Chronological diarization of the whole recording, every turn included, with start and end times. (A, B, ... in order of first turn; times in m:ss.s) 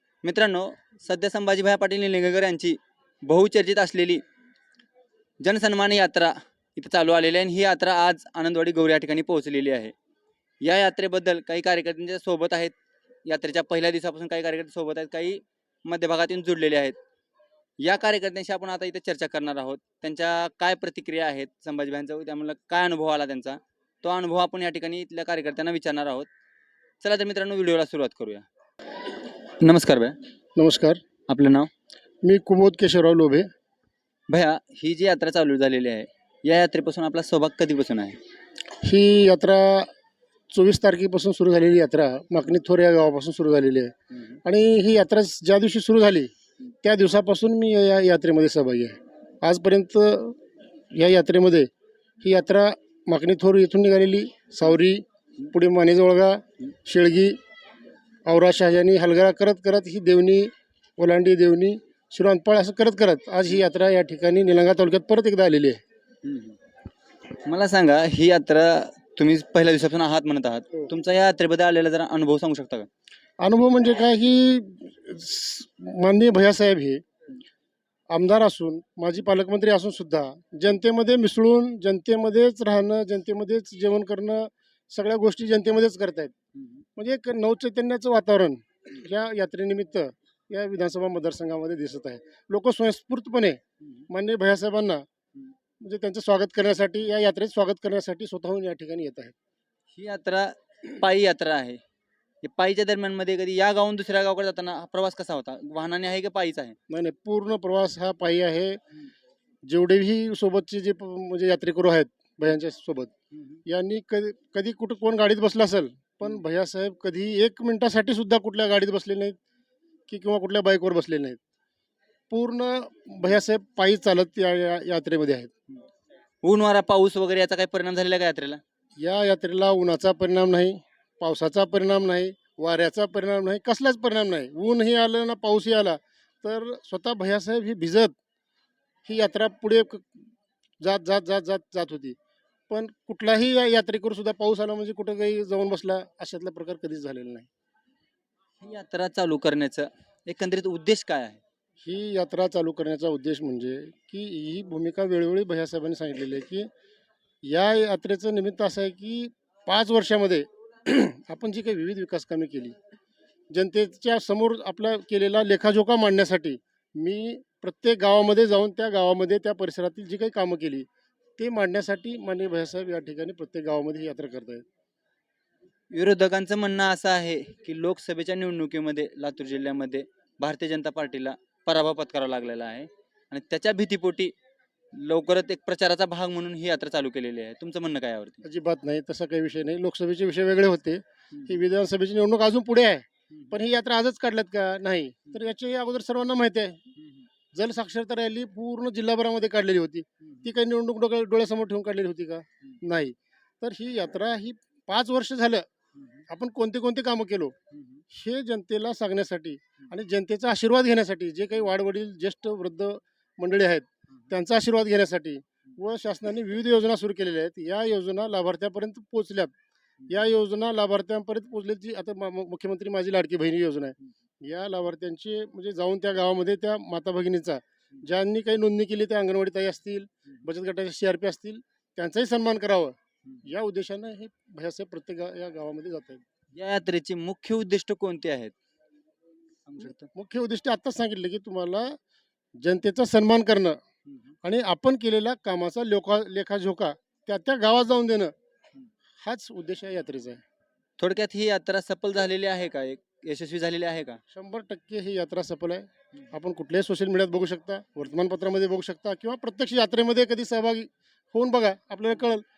0:00.2-0:04.2 A
0:05.4-0:09.9 A
0:10.6-0:12.7 A
0:13.2-0:17.0 A
0:17.8-0:26.3 A
0:27.0-0:28.4 A
0:29.6-0:30.2 A
0:30.6-0:31.0 B
0:31.3-0:31.7 A
0:32.2-0:33.5 B
0:34.3-0:38.2 A
0:38.8-0:39.9 B
0:40.5-0:46.3 B
0:46.8-0:50.4 B
0:50.9-0:51.7 B
0:52.2-0:57.4 B
0:58.2-1:05.8 B
1:06.2-1:06.6 A
1:07.4-1:12.9 A
1:13.4-1:17.0 B
1:18.1-1:26.3 B
1:27.0-1:35.0 B
1:35.8-1:39.3 B
1:39.9-1:41.8 A
1:42.4-1:46.8 A
1:46.9-1:48.8 B
1:49.6-1:53.1 B
1:53.6-1:59.4 B
2:00.1-2:01.4 B
2:02.3-2:05.5 B
2:06.4-2:08.6 A
2:09.0-2:18.2 B
2:19.0-2:20.2 B
2:20.8-2:22.2 B
2:22.7-2:27.5 B
2:28.6-2:31.4 A
2:31.8-2:36.7 B
2:37.4-2:42.8 B
2:43.5-2:50.9 B
2:51.4-2:54.6 B
2:55.9-3:04.3 A
3:04.9-3:08.4 A
3:08.4-3:16.8 B
3:17.5-3:25.7 B
3:26.3-3:27.6 B
3:27.7-3:28.0 A
3:28.1-3:39.5 B
3:40.1-3:56.2 B
3:56.5-3:58.5 A
3:59.7-4:00.1 A
4:00.1-4:02.0 B
4:02.6-4:03.8 B
4:04.4-4:08.3 B
4:09.2-4:10.4 B
4:11.0-4:14.2 A
4:14.3-4:22.4 B